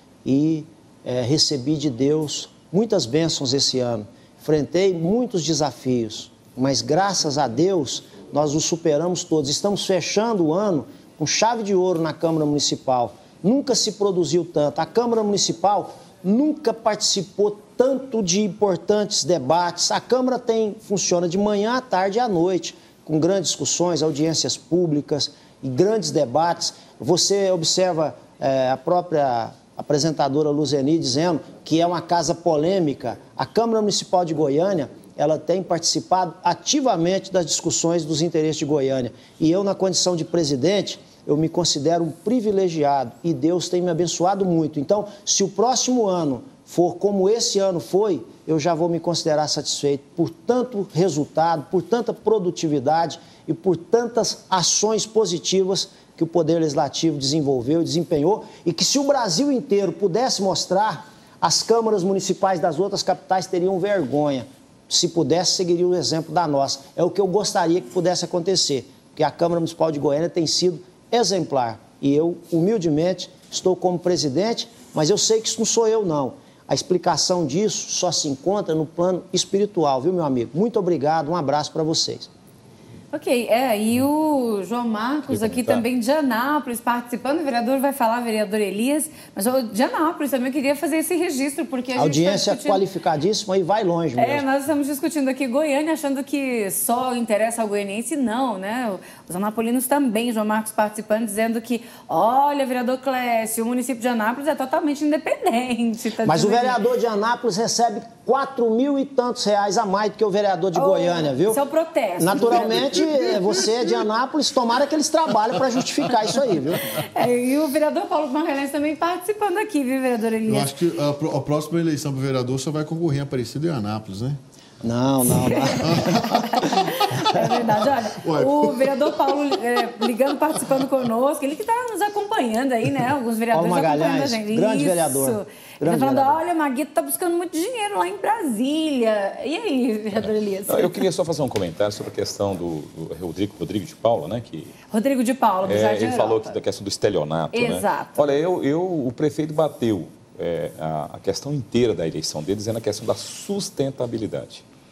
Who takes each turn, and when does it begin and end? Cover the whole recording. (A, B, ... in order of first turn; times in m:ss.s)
0:00.2-1:22.3 A
1:23.1-1:32.8 B
1:25.3-1:25.8 C
1:32.0-1:34.4 A
1:34.2-1:46.8 B
1:46.2-1:51.6 A
1:50.7-1:53.0 B
1:52.2-1:56.9 A
1:52.3-1:54.0 D
1:57.0-2:00.7 B
2:00.5-2:04.4 D
2:04.8-2:06.4 A
2:05.3-2:21.1 B
2:05.8-2:09.4 D
2:13.5-2:16.4 A
2:20.7-2:24.7 C
2:24.9-2:26.6 B
2:25.6-2:34.6 C
2:27.5-2:28.2 B